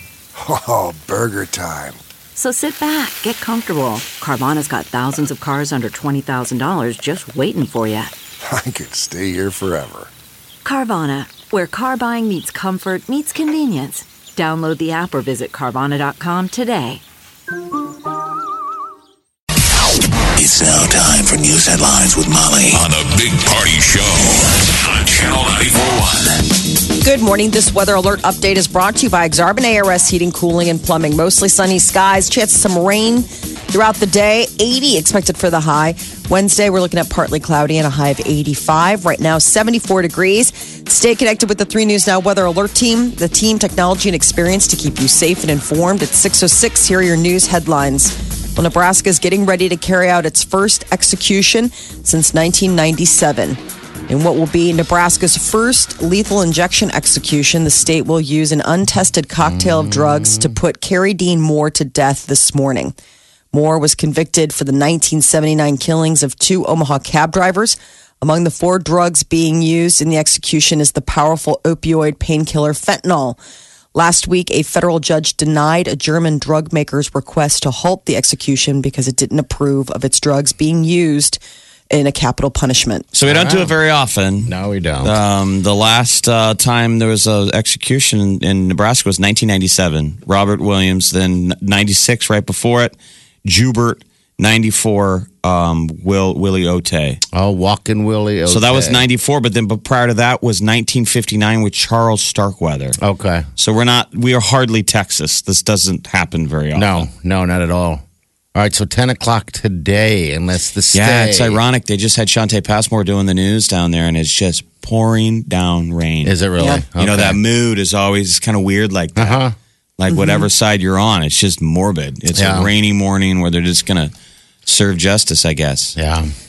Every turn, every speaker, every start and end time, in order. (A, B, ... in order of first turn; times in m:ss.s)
0:00.4-0:02.0 A
0:02.3-0:08.1 B
0:08.4-0:10.1 A
0:10.6-0:17.0 B
0:20.4-0:26.5 C
0:27.0-1:02.9 D
0:59.4-1:00.6 E
1:03.5-1:13.4 D
1:13.9-1:23.1 D
1:23.1-1:24.5 F
1:23.3-1:23.7 E
1:24.4-1:25.2 E
1:25.0-1:37.2 F
1:37.3-1:39.0 E
1:38.5-1:43.0 F
1:43.0-1:43.4 E
1:43.6-1:47.1 F
1:46.7-1:48.0 E
1:48.5-1:51.6 E
1:50.9-1:56.4 F
1:56.2-1:57.4 E
1:57.0-1:59.4 F
1:59.2-1:59.5 E
2:00.0-2:04.1 F
2:00.1-2:00.5 D
2:02.3-2:02.7 E
2:04.6-2:06.0 F
2:06.0-2:06.3 E